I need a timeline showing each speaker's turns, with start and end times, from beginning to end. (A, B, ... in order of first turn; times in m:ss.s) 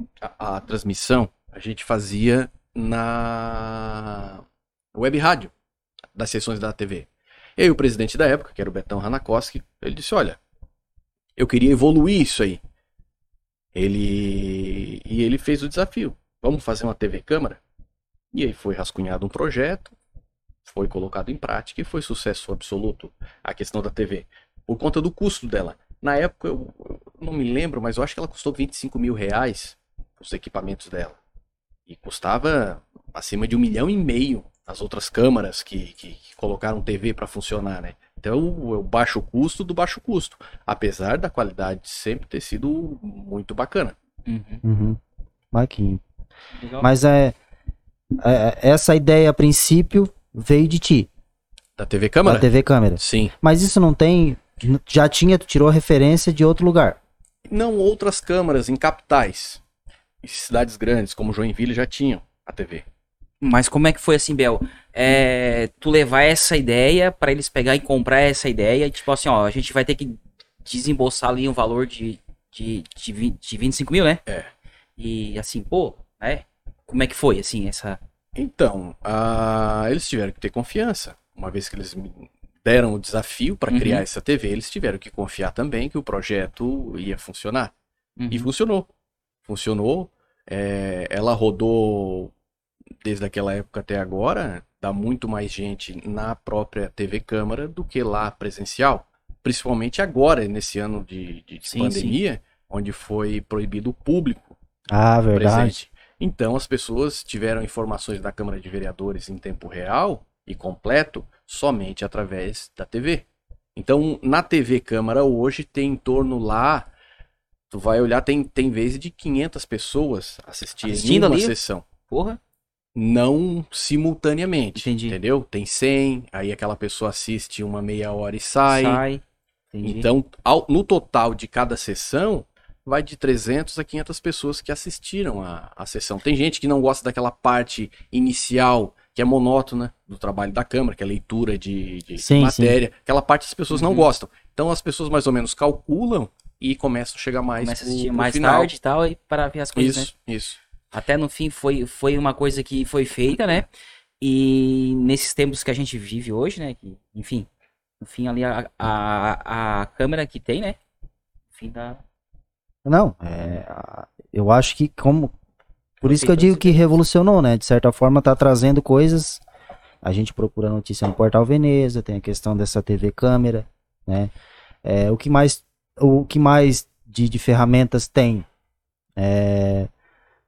0:00.2-0:05.5 A
0:06.2-0:10.4 A
0:11.4-0:12.6 A
0:13.8-0:17.6 A
0:18.3-0:19.9 A
0:20.7-0:31.2 A
0:31.9-0:44.0 A
0:44.3-0:44.6 B
0:44.6-0:45.0 C
0:45.5-0:46.0 C
0:46.6-0:46.9 B
0:46.8-0:47.4 C
0:48.2-0:51.1 C
0:51.8-0:53.4 A
0:52.2-0:57.0 C
0:57.5-0:59.6 A
1:00.2-1:02.8 A
1:03.4-1:14.2 B
1:15.0-1:18.0 B
1:18.4-1:27.7 A
1:23.7-1:24.0 B
1:28.2-1:28.5 B
1:28.3-1:28.9 A
1:29.5-1:32.3 A
1:33.0-1:44.6 A
1:41.6-1:42.2 B
1:44.9-1:45.8 C
1:45.3-1:56.9 A
1:57.7-2:01.8 A
2:00.8-2:01.6 B
2:02.1-2:02.4 B
2:03.0-2:09.0 A
2:04.8-2:05.2 B
2:08.7-2:09.2 B
2:09.7-2:10.1 B
2:09.8-2:28.7 A
2:22.2-2:22.8 C
2:23.7-2:24.1 B
2:27.6-2:30.1 B
2:29.8-2:30.6 A
2:30.9-2:33.7 B
2:34.2-2:37.5 B
2:38.0-2:40.8 B
2:41.5-2:42.0 B
2:42.8-2:45.3 C
2:46.0-2:47.0 B
2:46.0-2:49.4 C
2:50.0-2:54.3 C
2:54.8-2:58.5 C
2:59.2-2:59.9 C